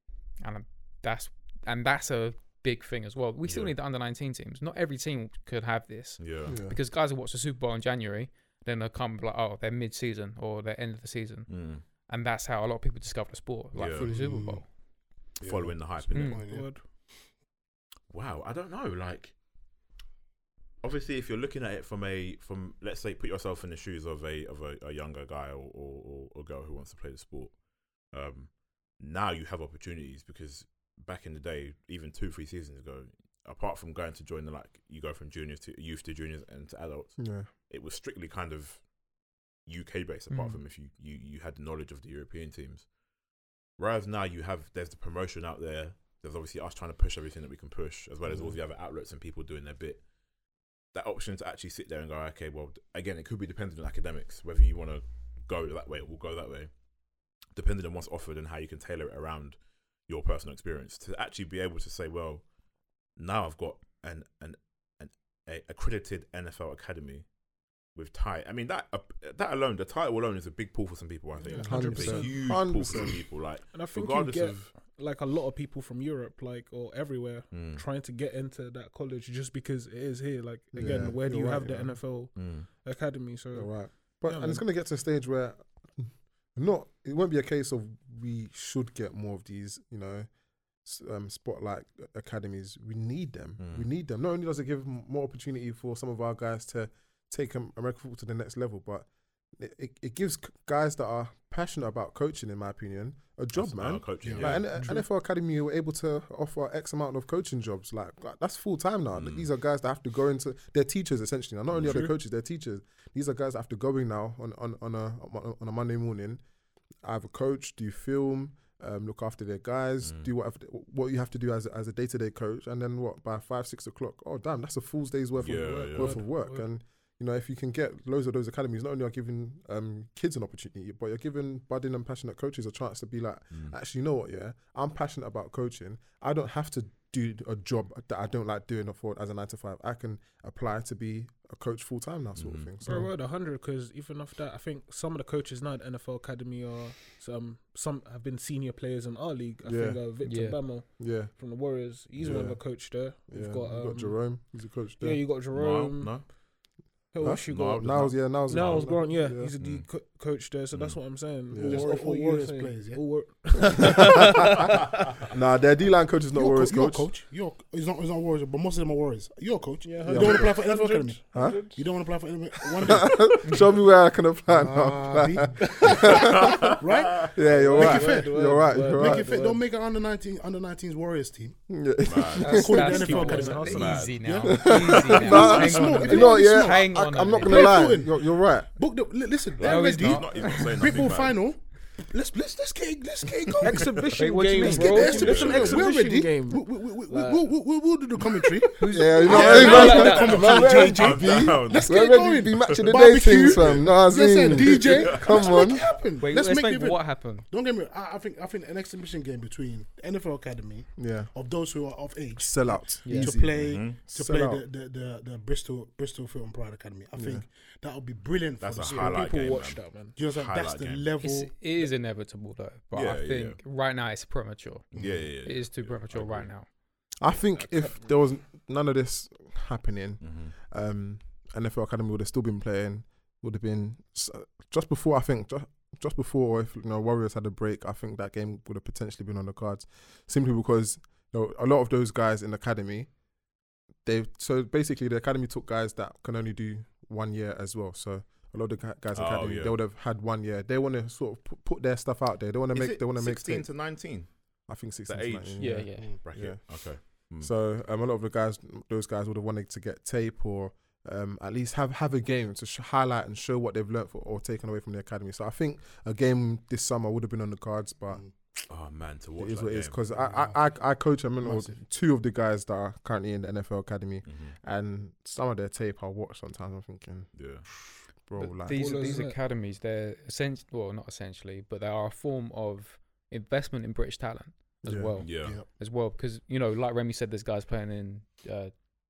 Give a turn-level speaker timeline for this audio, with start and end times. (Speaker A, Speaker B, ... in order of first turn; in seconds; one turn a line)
Speaker A: 0.4-14.6
Speaker B: 3.4-3.7
Speaker B: 6.2-6.6
Speaker C: 6.5-6.8
Speaker B: 11.5-11.8
Speaker B: 13.7-14.1
Speaker C: 13.9-14.6
Speaker D: 14.0-14.6
Speaker B: 15.4-16.4
Speaker D: 15.4-16.7
Speaker A: 16.1-16.4
Speaker E: 16.5-16.9
Speaker B: 18.1-19.3
Speaker B: 20.8-27.6
Speaker B: 28.1-38.8
Speaker C: 37.2-37.5
Speaker B: 39.6-42.9
Speaker A: 40.3-40.6
Speaker B: 43.8-50.0
Speaker B: 50.9-56.7
Speaker B: 57.5-59.6
Speaker B: 60.1-62.4
Speaker B: 63.1-67.2
Speaker B: 67.9-74.7
Speaker E: 71.5-72.8
Speaker C: 71.6-73.2
Speaker E: 73.6-84.6
Speaker B: 77.5-77.8
Speaker C: 80.7-82.2
Speaker B: 80.8-81.2
Speaker B: 82.3-82.7
Speaker C: 83.5-90.3
Speaker C: 90.8-116.4
Speaker B: 93.6-93.9
Speaker B: 103.5-104.7
Speaker D: 104.2-104.6
Speaker E: 104.6-105.1
Speaker B: 109.1-109.5
Speaker E: 111.8-112.1
Speaker C: 117.0-143.1
Speaker B: 120.0-120.3
Speaker B: 125.4-126.3
Speaker E: 125.6-126.7
Speaker B: 142.4-142.7
Speaker E: 142.8-156.4
Speaker C: 149.6-150.2
Speaker A: 150.2-150.7
Speaker C: 151.0-155.2
Speaker B: 155.4-156.3
Speaker E: 157.1-164.8
Speaker C: 157.2-159.5
Speaker B: 157.2-159.9
Speaker B: 160.7-161.2
Speaker C: 161.5-161.9
Speaker D: 161.5-163.2
Speaker C: 165.3-167.1
Speaker D: 166.3-173.4
Speaker E: 169.8-171.8
Speaker C: 170.1-170.6
Speaker C: 171.3-171.7
Speaker C: 172.8-176.7
Speaker D: 174.5-181.6
Speaker B: 175.8-177.3
Speaker C: 177.3-179.3
Speaker E: 177.4-179.6
Speaker C: 181.7-182.9
Speaker B: 182.0-182.6
Speaker D: 182.3-194.0
Speaker A: 182.4-187.9
Speaker E: 182.6-184.1
Speaker B: 183.6-185.9
Speaker C: 184.4-188.7
Speaker B: 189.6-191.4
Speaker A: 189.6-190.9
Speaker E: 193.6-197.5
Speaker A: 193.7-195.5
Speaker B: 193.7-194.1
Speaker D: 194.6-219.6
Speaker B: 195.1-195.9
Speaker A: 198.8-200.4
Speaker E: 198.8-200.9
Speaker C: 198.9-205.8
Speaker B: 199.2-203.9
Speaker B: 204.5-205.6
Speaker A: 206.2-207.4
Speaker C: 210.9-211.3
Speaker C: 212.4-214.6
Speaker A: 213.0-213.4
Speaker B: 213.6-214.0
Speaker C: 217.2-217.4
Speaker B: 218.6-221.1
Speaker E: 218.8-220.2
Speaker D: 220.1-221.5
Speaker A: 221.2-226.7
Speaker B: 222.9-223.6
Speaker D: 224.9-225.3
Speaker B: 224.9-226.5
Speaker C: 227.2-243.1
Speaker E: 227.5-227.9
Speaker B: 230.2-230.5
Speaker C: 244.0-268.2
Speaker B: 249.1-249.8
Speaker B: 252.7-254.3
Speaker B: 255.1-257.5
Speaker A: 255.6-256.1
Speaker D: 255.9-256.2
Speaker B: 268.7-270.0
Speaker C: 269.4-279.2
Speaker D: 270.1-270.6
Speaker D: 271.4-271.7
Speaker B: 274.2-274.6
Speaker B: 277.3-277.9
Speaker A: 278.4-288.8
Speaker E: 278.6-279.4
Speaker C: 284.8-285.1
Speaker B: 285.2-285.6